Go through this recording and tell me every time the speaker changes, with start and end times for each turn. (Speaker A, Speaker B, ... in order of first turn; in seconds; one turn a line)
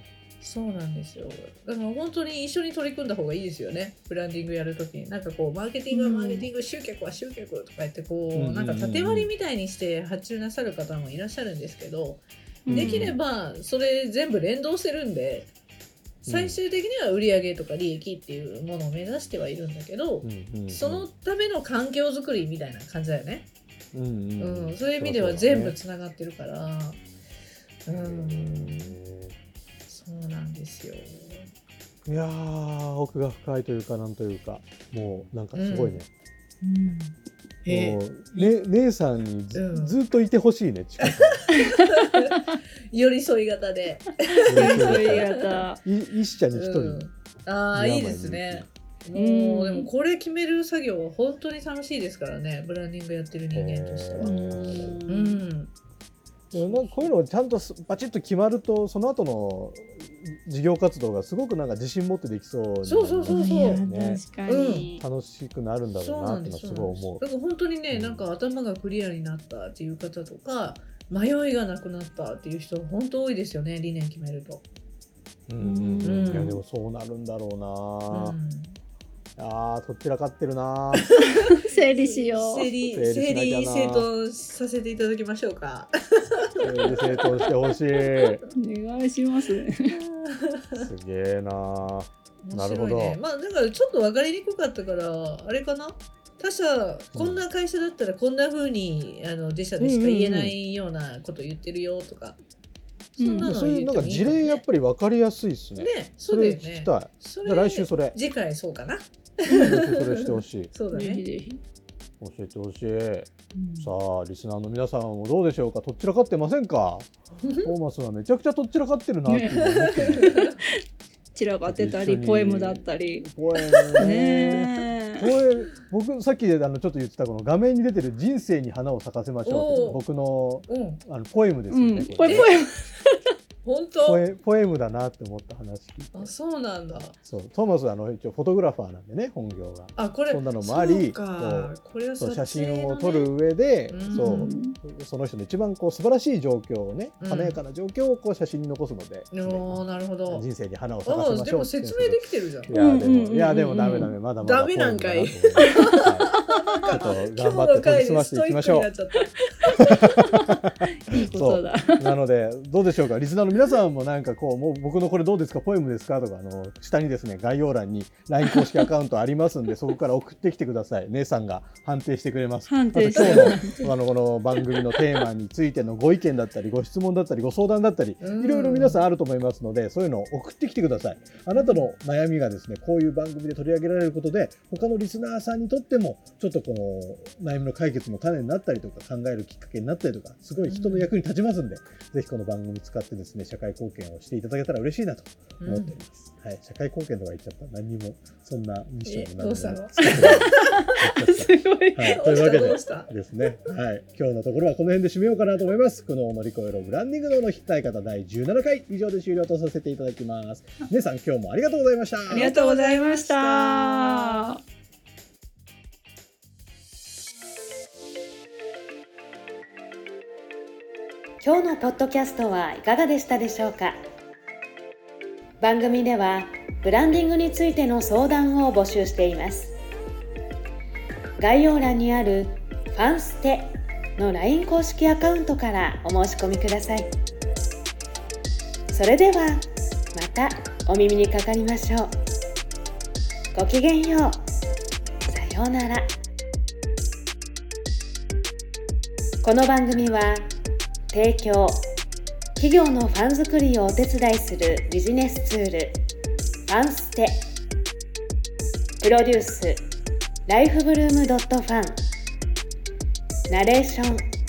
Speaker A: 0.4-15.5
Speaker B: 5.9-6.5
Speaker C: 8.3-9.3
Speaker B: 12.7-13.2
Speaker C: 12.7-13.2
Speaker C: 16.2-16.6
Speaker A: 16.2-23.5
Speaker C: 20.2-21.1
Speaker C: 23.9-25.8
Speaker A: 24.4-27.0
Speaker A: 27.9-28.9
Speaker C: 27.9-29.4
Speaker A: 29.9-31.5
Speaker C: 32.0-36.1
Speaker A: 35.5-36.0
Speaker A: 36.6-37.1
Speaker A: 37.6-38.5
Speaker C: 37.7-41.4
Speaker A: 39.5-40.0
Speaker A: 41.0-42.4
Speaker A: 42.9-45.6
Speaker B: 44.5-45.8
Speaker C: 44.5-45.3
Speaker C: 45.8-47.1
Speaker A: 46.5-55.7
Speaker C: 47.7-48.7
Speaker B: 49.1-49.9
Speaker C: 53.5-55.0
Speaker B: 54.2-55.4
Speaker A: 56.5-57.1
Speaker C: 56.5-64.3
Speaker A: 62.8-63.8
Speaker B: 63.3-65.0
Speaker A: 64.5-64.9
Speaker C: 65.0-67.2
Speaker A: 66.0-74.7
Speaker C: 67.9-68.3
Speaker C: 75.5-78.4
Speaker B: 75.6-76.6
Speaker A: 76.0-76.6
Speaker A: 78.1-78.8
Speaker C: 79.4-81.2
Speaker B: 81.6-82.7
Speaker A: 82.0-87.4
Speaker C: 82.9-84.1
Speaker C: 86.6-88.4
Speaker B: 88.5-90.0
Speaker A: 89.9-90.9
Speaker C: 90.8-93.2
Speaker A: 92.4-102.4
Speaker C: 97.1-97.4
Speaker C: 99.8-100.6
Speaker A: 103.2-104.6
Speaker B: 103.2-103.5
Speaker C: 103.4-108.2
Speaker A: 105.8-111.2
Speaker C: 109.6-110.7
Speaker B: 110.9-111.6
Speaker C: 112.2-120.3
Speaker B: 113.6-113.9
Speaker A: 117.4-117.7
Speaker B: 119.3-120.5
Speaker A: 119.3-120.5
Speaker B: 121.3-123.3
Speaker C: 121.7-132.5
Speaker B: 124.0-125.2
Speaker A: 129.4-130.0
Speaker A: 130.7-131.0
Speaker B: 131.7-133.2
Speaker A: 132.2-132.6
Speaker A: 133.6-134.2
Speaker C: 134.0-136.3
Speaker A: 136.1-137.2
Speaker C: 137.2-156.3
Speaker A: 140.0-143.3
Speaker A: 143.9-144.6
Speaker B: 144.1-144.8
Speaker A: 147.2-147.6
Speaker A: 149.3-150.5
Speaker A: 151.1-152.8
Speaker B: 152.7-154.1
Speaker A: 154.4-159.9
Speaker B: 155.6-156.3
Speaker C: 156.9-158.9
Speaker C: 160.0-212.5
Speaker B: 161.1-162.1
Speaker B: 168.5-168.8
Speaker B: 172.7-173.9
Speaker A: 178.2-179.0
Speaker A: 181.5-181.9
Speaker A: 190.6-191.1
Speaker A: 195.6-196.0
Speaker A: 199.0-200.9
Speaker B: 200.2-202.2
Speaker A: 202.0-203.7
Speaker A: 212.3-214.6
Speaker B: 212.3-214.6
Speaker D: 221.4-224.0
Speaker D: 225.6-229.8
Speaker D: 231.4-237.1
Speaker D: 238.9-242.1
Speaker D: 243.5-244.4
Speaker D: 245.3-246.1
Speaker D: 249.4-250.5
Speaker D: 251.1-251.8
Speaker D: 252.6-256.0
Speaker D: 256.7-257.5
Speaker D: 259.0-259.8
Speaker D: 260.5-262.0
Speaker D: 263.5-264.3